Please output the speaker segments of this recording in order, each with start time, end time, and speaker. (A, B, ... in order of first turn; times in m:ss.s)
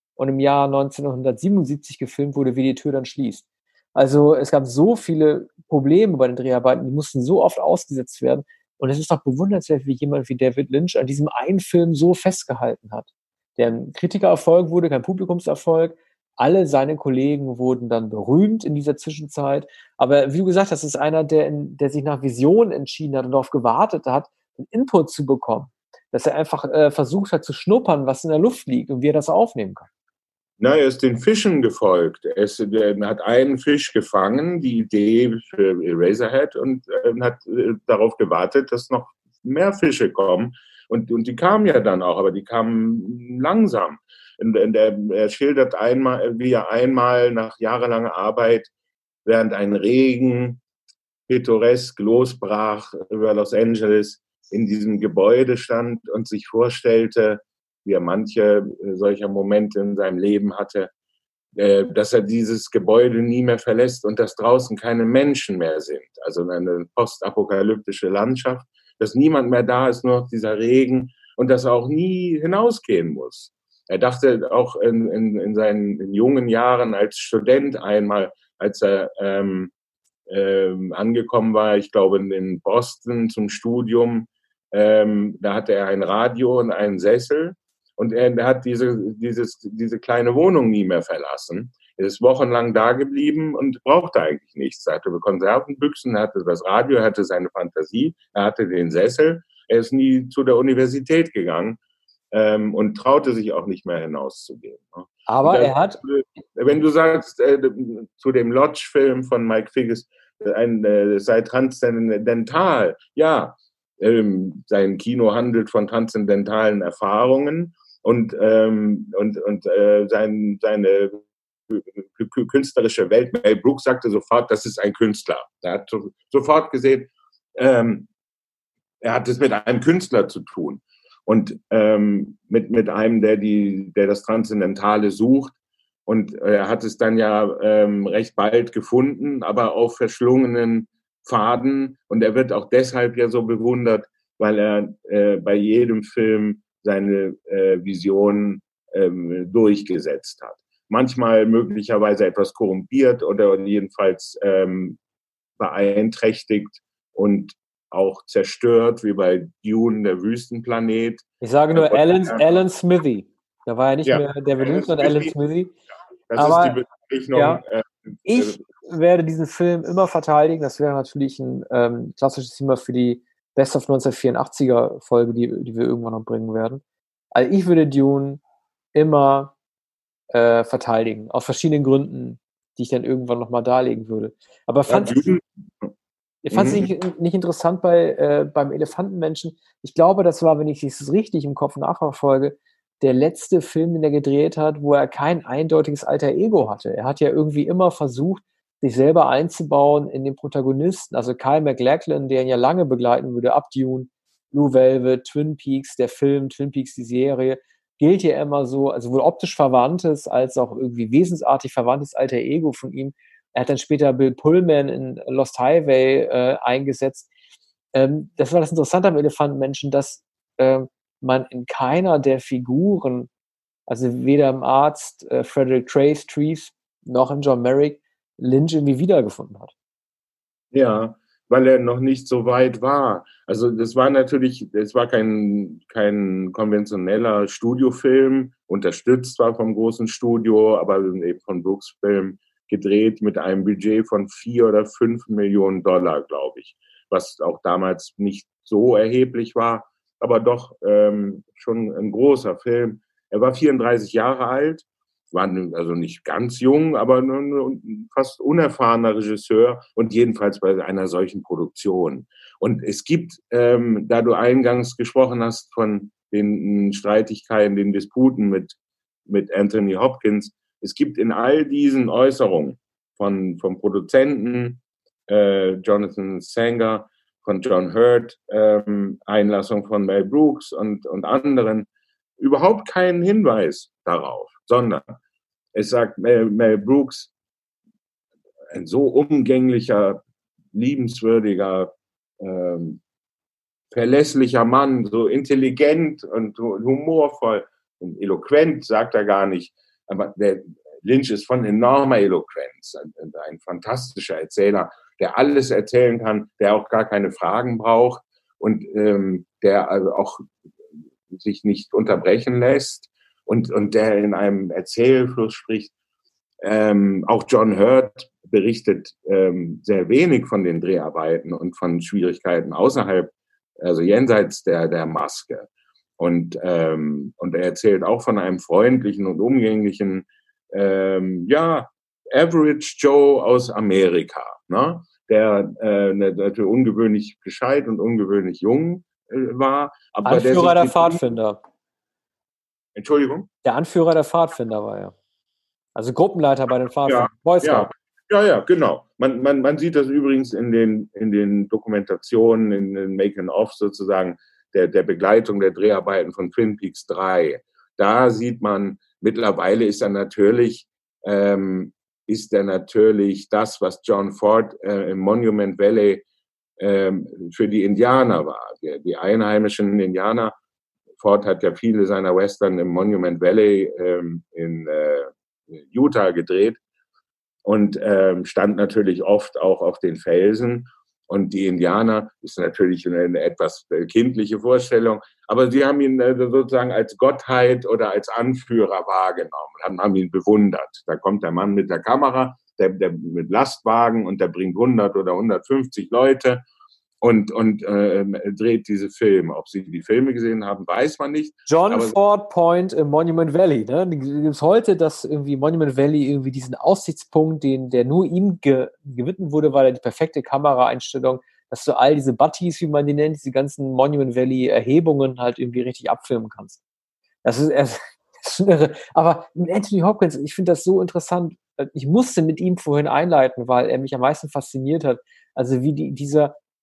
0:00.2-0:29.9 A
0:30.6-0:48.7 B
0:49.2-0:50.6 B
0:51.3-1:00.9 B
1:01.5-1:19.7 B
1:20.3-1:41.8 B
1:42.3-2:08.1 B
1:45.3-1:46.0 A
2:09.0-2:35.0 B
2:35.6-2:42.6 B
2:41.4-2:45.7 A
2:44.0-2:45.3 B
2:46.3-2:48.6 B
2:46.4-2:46.8 A
2:47.3-2:47.6 A
2:48.2-2:56.8 A
2:57.3-2:58.4 A
2:58.9-2:59.5 A
3:00.3-3:05.4 A
3:04.9-3:05.9 B
3:06.4-3:37.3 A
3:06.5-3:06.9 B
3:37.9-3:43.3 A
3:43.9-3:49.7 A
3:50.7-4:28.8 B
4:29.3-4:41.9 B
4:42.4-4:45.1 B
4:45.7-4:47.3 B
4:48.7-4:50.2 B
4:50.7-4:53.0 B
4:53.9-5:10.4 B
5:11.3-5:15.9 B
5:16.6-5:41.2 B
5:40.2-5:41.6 A
5:42.9-5:43.5 B
5:43.6-5:45.1 A
5:46.0-5:47.9 A
5:47.0-6:06.2 B
6:06.8-6:10.5 B
6:11.2-6:16.8 B
6:17.6-6:36.6 B
6:37.2-6:42.2 B
6:41.7-6:56.8 A
6:57.4-7:06.6 A